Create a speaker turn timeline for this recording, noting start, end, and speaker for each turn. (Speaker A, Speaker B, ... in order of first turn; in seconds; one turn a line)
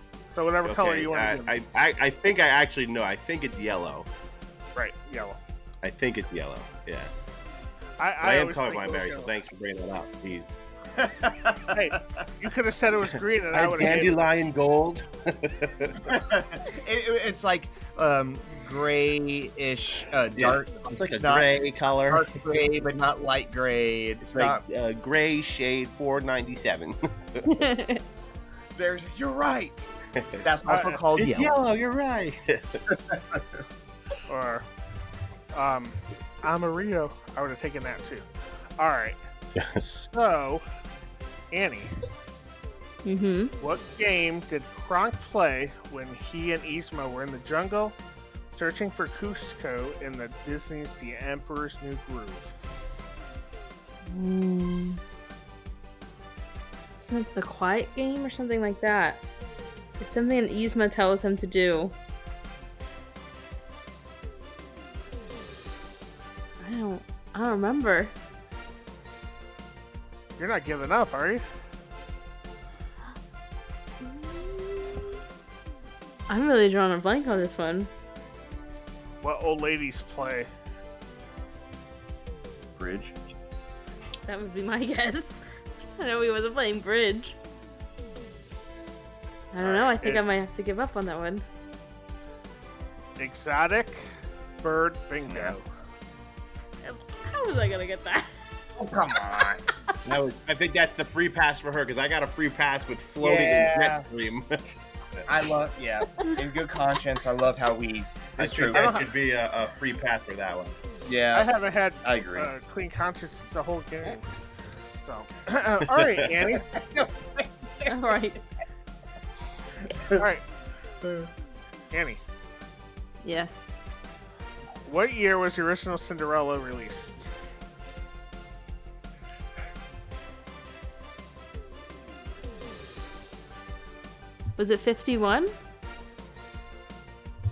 Speaker A: 0.3-1.5
Speaker B: 0.6-4.1
Speaker A: 4.8-5.4
Speaker B: 5.8-7.1
Speaker A: 8.0-9.3
Speaker B: 8.2-10.5
Speaker C: 10.9-12.0
Speaker A: 11.7-14.2
Speaker B: 13.5-16.2
Speaker C: 16.1-21.5
Speaker B: 20.4-22.4
Speaker C: 22.1-24.6
Speaker B: 24.3-27.6
Speaker D: 27.4-28.0
Speaker C: 28.8-29.9
Speaker B: 30.1-30.4
Speaker C: 30.4-31.6
Speaker A: 30.7-31.0
Speaker B: 31.2-32.8
Speaker C: 32.9-33.4
Speaker A: 34.3-34.7
Speaker A: 35.5-38.2
Speaker A: 38.8-39.2
Speaker A: 39.8-40.6
Speaker A: 41.5-41.9
Speaker D: 43.0-43.5
Speaker A: 43.6-48.0
Speaker A: 48.5-52.5
Speaker D: 54.1-55.0
Speaker D: 57.0-59.2
Speaker D: 60.0-61.9
Speaker D: 66.6-68.1
Speaker A: 70.4-71.4
Speaker D: 74.0-75.2
Speaker D: 76.3-77.9
Speaker A: 79.2-80.5
Speaker C: 82.8-83.2
Speaker D: 84.3-85.4
Speaker D: 86.0-87.4
Speaker D: 89.5-91.4
Speaker A: 89.6-90.2
Speaker A: 93.2-94.1
Speaker A: 94.6-95.7
Speaker C: 95.3-95.6
Speaker D: 96.8-98.3
Speaker C: 98.8-99.6
Speaker B: 100.0-104.6
Speaker C: 103.2-104.1
Speaker C: 105.3-109.0
Speaker B: 108.4-110.8
Speaker A: 108.7-109.1
Speaker C: 111.1-111.5
Speaker A: 111.3-114.2
Speaker C: 112.0-112.5
Speaker A: 115.1-116.7
Speaker C: 116.6-118.0
Speaker D: 117.9-118.4
Speaker C: 119.9-120.2
Speaker A: 120.2-120.4
Speaker A: 121.9-122.2
Speaker D: 123.2-123.7
Speaker A: 124.8-127.3
Speaker D: 134.6-135.5